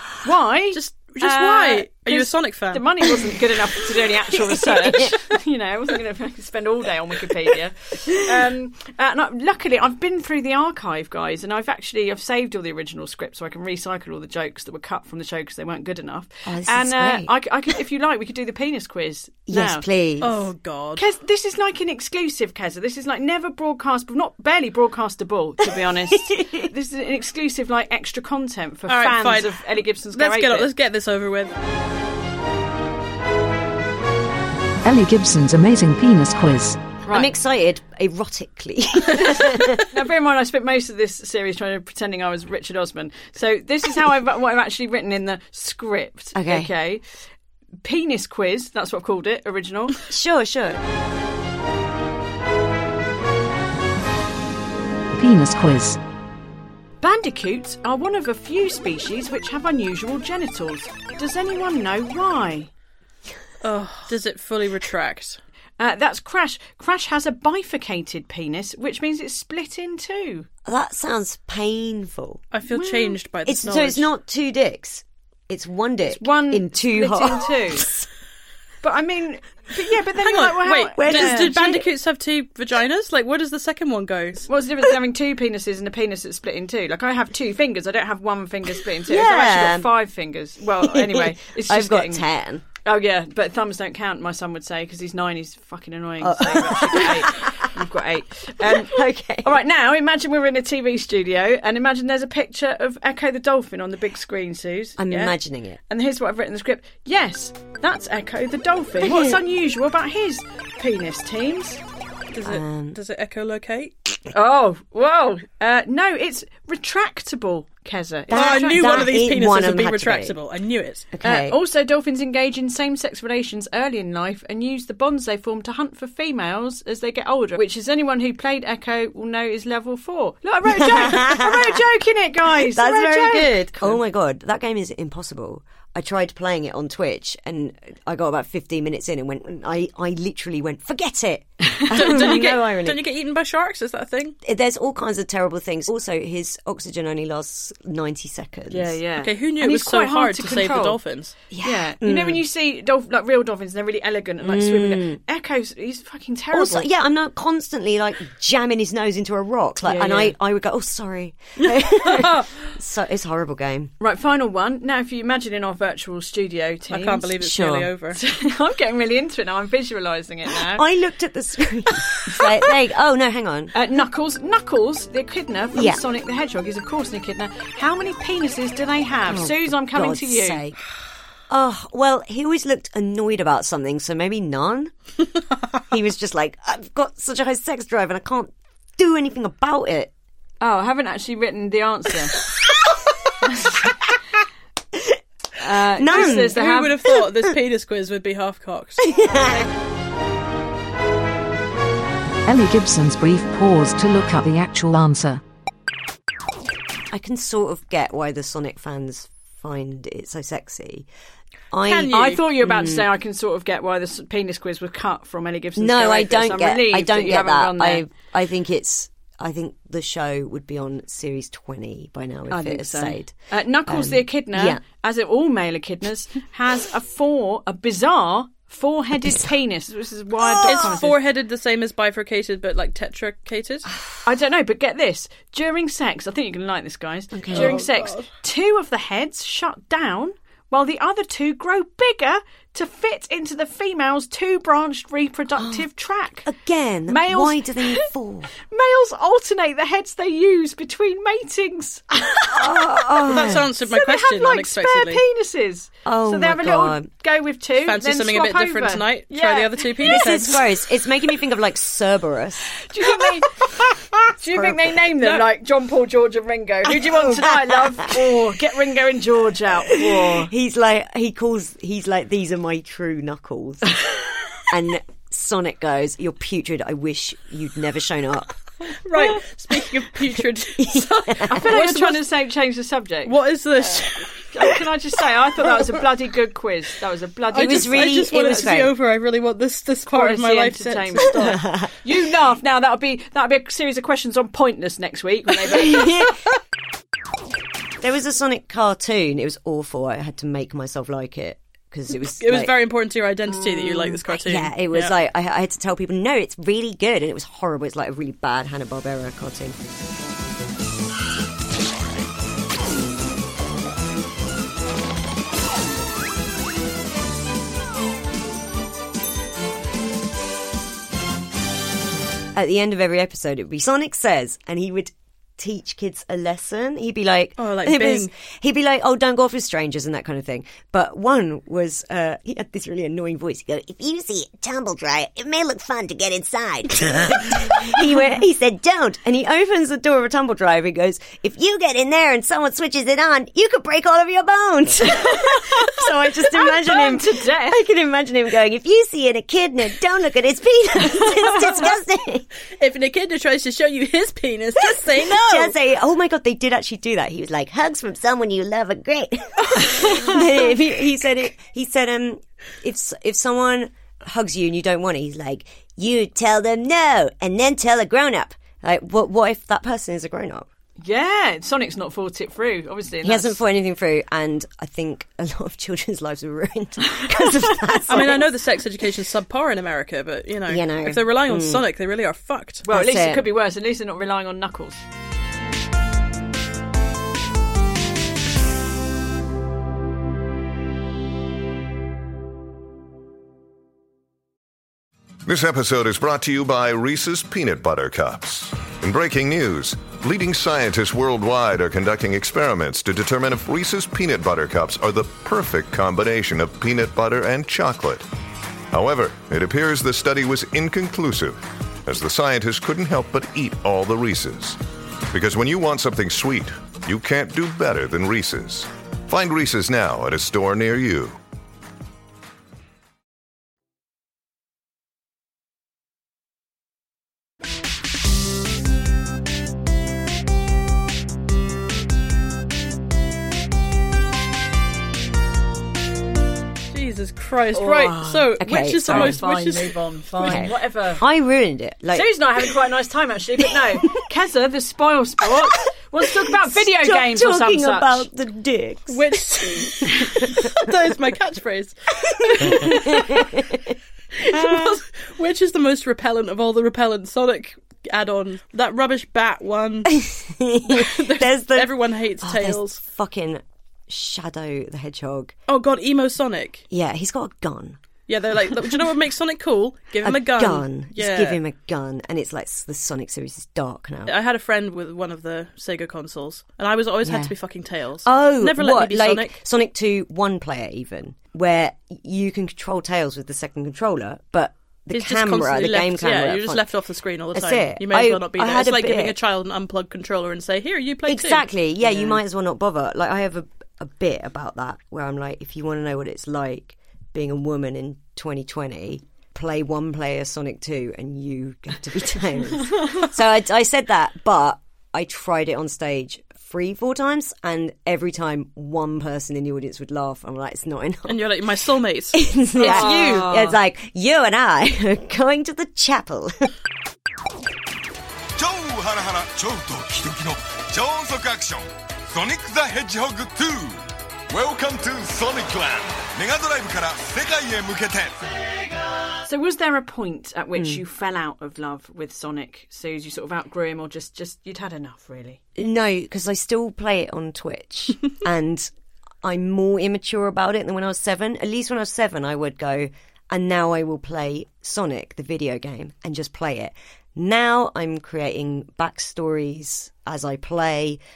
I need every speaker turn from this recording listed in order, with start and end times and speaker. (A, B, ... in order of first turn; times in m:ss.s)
0:00.2-0:19.8 A
0:00.7-0:02.8 B
0:04.5-0:05.2 C
0:16.4-0:17.3 C
0:19.5-0:20.4 C
0:20.2-0:21.0 B
0:21.0-0:30.7 A
0:26.2-0:26.6 C
0:28.9-0:29.6 B
0:30.1-0:31.5 B
0:34.8-0:36.9 D
0:37.0-0:37.3 A
0:37.1-0:39.9 C
0:39.9-0:47.0 A
0:46.3-0:46.7 C
0:47.8-0:50.1 A
0:50.1-0:50.8 C
0:55.1-0:56.0 D
0:57.0-1:02.7 A
1:03.6-1:05.4 B
1:05.8-1:10.5 A
1:10.6-1:12.4 C
1:12.5-1:14.1 B
1:12.7-1:13.2 A
1:13.4-1:18.1 C
1:16.1-1:17.9 A
1:18.8-1:21.5 A
1:20.2-1:24.5 B
1:20.9-1:21.8 C
1:24.5-1:32.2 A
1:29.1-1:29.9 C
1:30.8-1:32.6 C
1:32.8-1:45.0 A
1:36.2-1:37.7 C
1:38.6-1:39.5 C
1:45.0-1:45.8 C
1:45.9-1:51.8 A
1:49.0-1:49.4 C
1:52.3-1:54.2 B
1:52.4-1:53.0 C
1:54.3-1:59.1 A
1:58.3-2:00.4 C
1:58.3-2:01.0 B
2:01.1-2:01.6 C
2:01.2-2:14.0 A
2:10.7-2:11.8 C
2:12.6-2:23.0 C
2:21.9-2:24.4 B
2:24.4-2:28.9 C
2:28.7-2:31.0 A
2:29.2-2:31.4 B
2:31.5-2:32.4 C
2:31.5-2:36.9 A
2:34.4-2:35.2 C
2:36.5-2:43.9 C
2:39.8-2:40.3 A
2:44.0-2:47.3 A
2:46.9-2:48.2 B
2:47.4-2:47.9 C
2:48.2-2:50.8 A
2:50.6-2:53.7 C
2:53.7-3:00.6 A
2:55.7-2:56.0 C
2:59.3-3:00.8 C
3:01.5-3:04.9 C
3:05.9-3:10.1 C
3:10.6-3:12.4 A
3:13.4-3:13.9 A
3:15.6-3:17.0 A
3:16.0-3:16.5 C
3:16.1-3:19.1 B
3:19.0-3:19.7 C
3:22.4-3:25.4 D
3:27.1-3:31.1 C
3:31.7-3:33.1 C
3:31.8-3:32.4 B
3:32.1-3:38.0 A
3:35.8-3:43.3 C
3:42.5-3:51.2 A
3:43.9-3:44.8 C
3:50.5-3:51.0 C
3:50.6-3:53.9 B
3:54.2-4:06.5 A
3:57.3-3:57.8 C
3:57.5-3:58.3 B
4:05.6-4:05.8 C
4:06.4-4:08.5 C
4:07.1-4:08.1 A
4:08.7-4:12.9 A
4:12.5-4:13.7 C
4:13.3-4:15.2 B
4:13.4-4:20.3 A
4:16.0-4:17.1 C
4:17.8-4:20.6 B
4:20.0-4:22.7 C
4:22.8-4:23.8 A
4:24.4-4:30.5 A
4:24.5-4:25.4 C
4:26.9-4:28.2 C
4:29.9-4:34.0 C
4:34.7-4:38.6 C
4:39.0-4:42.2 B
4:40.8-4:41.7 C
4:41.5-4:43.3 A
4:43.2-4:44.5 B
4:44.4-4:48.8 A
4:47.5-4:51.6 B
4:47.5-4:48.9 C
4:50.1-4:56.3 A
4:51.5-4:51.9 C
4:55.7-4:56.4 C
4:58.0-5:02.7 C
5:02.2-5:05.1 B
5:03.9-5:10.0 C
5:22.5-5:52.4 C
5:27.6-5:28.3 B
5:45.0-5:47.8 A
5:52.7-5:55.7 B
5:54.9-6:10.7 C
6:00.0-6:00.2 A
6:11.0-6:13.6 A
6:13.2-6:18.4 C
6:18.1-6:22.8 B
6:20.7-6:21.8 C
6:22.8-6:25.0 A
6:22.9-6:23.5 C
6:35.4-6:48.2 E
6:48.9-6:54.8 E
6:55.3-7:01.4 E
7:16.9-7:20.7 B
7:17.7-7:21.2 A
7:18.6-7:19.4 C
7:20.4-7:22.7 C
7:22.1-7:28.3 A
7:26.2-7:30.6 C
7:29.1-7:33.6 B
7:32.5-7:33.9 C
7:34.4-7:40.2 B
7:40.1-7:45.5 C
7:40.8-7:43.0 B
7:45.7-7:46.8 B
7:46.9-7:48.0 C
7:48.3-7:51.6 B
7:50.2-7:54.3 C
7:54.2-7:59.6 B
7:57.2-7:57.5 C
7:58.2-8:06.9 C
8:05.1-8:11.7 B
8:07.5-8:09.4 C
8:11.2-8:31.4 C
8:31.3-8:33.6 B
8:32.3-8:36.7 C
8:32.8-8:33.8 A
8:38.6-8:48.5 F
8:49.4-8:55.6 A
8:55.8-8:58.9 C
8:59.4-9:11.2 C